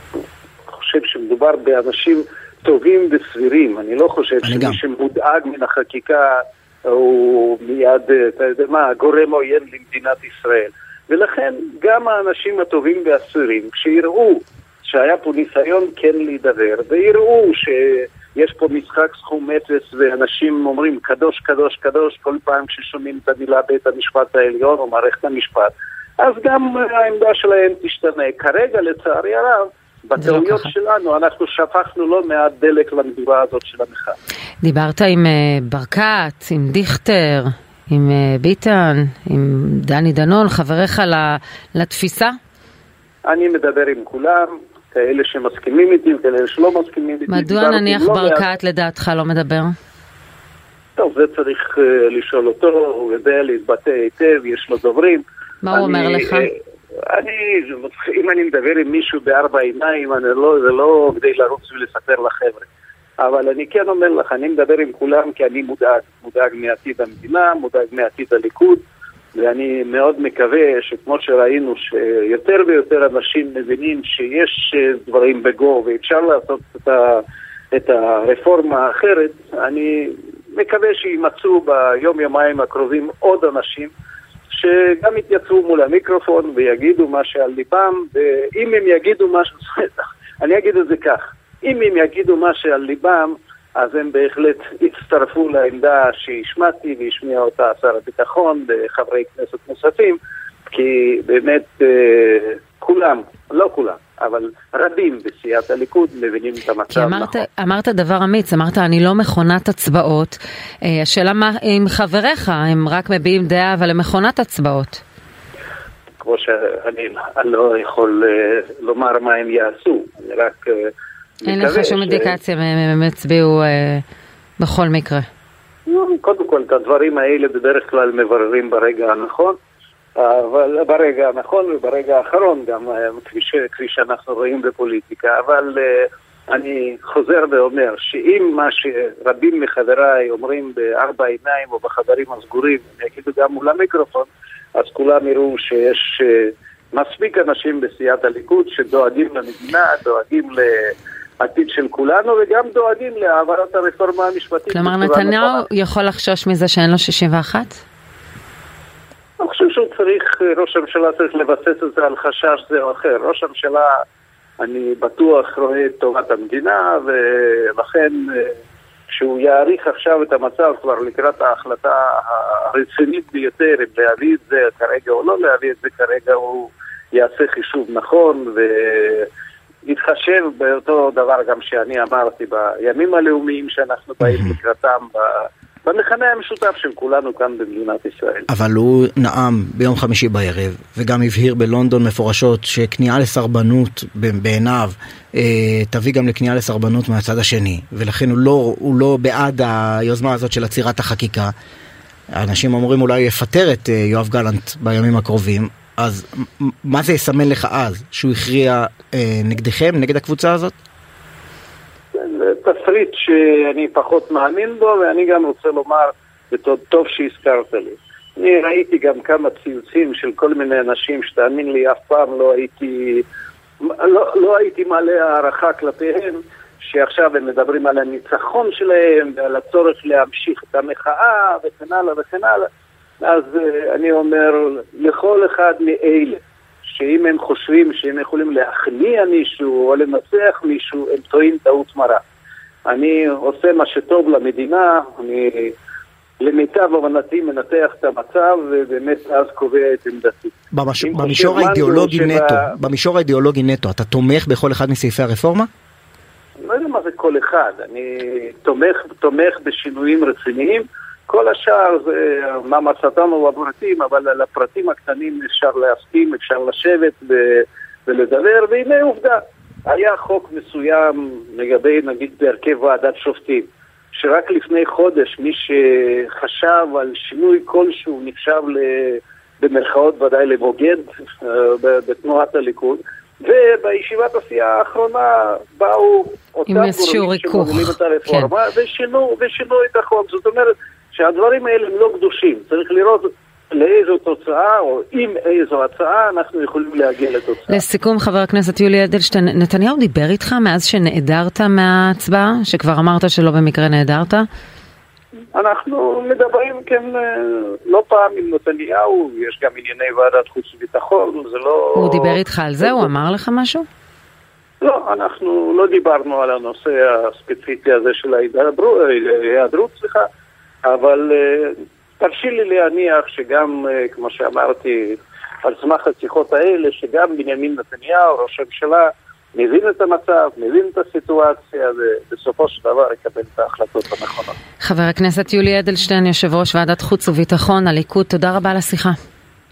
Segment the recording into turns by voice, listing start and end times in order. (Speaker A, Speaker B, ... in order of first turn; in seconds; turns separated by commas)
Speaker A: 0.7-34.1, Speaker B: 4.4-4.8, Speaker C: 30.2-30.7, Speaker C: 34.6-42.4, Speaker A: 43.2-48.5, Speaker C: 47.3-49.7, Speaker A: 51.0-56.5, Speaker C: 55.6-56.5, Speaker A: 57.1-62.7, Speaker A: 63.2-68.8, Speaker A: 69.3-83.9, Speaker A: 84.5-107.4, Speaker C: 106.9-115.0, Speaker A: 116.2-120.9, Speaker A: 121.4-122.3, Speaker C: 121.5-124.0, Speaker C: 124.6-125.3, Speaker A: 125.8-129.6, Speaker A: 130.2-155.7, Speaker C: 154.7-157.8, Speaker A: 159.4-164.0, Speaker A: 164.6-168.6, Speaker A: 169.1-179.3, Speaker A: 179.8-188.5, Speaker B: 188.5-201.5, Speaker B: 202.3-210.7, Speaker A: 212.1-223.2, Speaker A: 223.8-232.7, Speaker A: 233.2-242.2, Speaker A: 242.9-245.7, Speaker A: 246.4-252.7, Speaker B: 250.7-255.7, Speaker A: 256.6-297.8, Speaker C: 286.7-288.5, Speaker C: 297.7-304.4, Speaker A: 305.5-313.1, Speaker C: 311.9-313.8, Speaker A: 314.8-320.3, Speaker A: 320.8-334.6, Speaker C: 334.8-339.1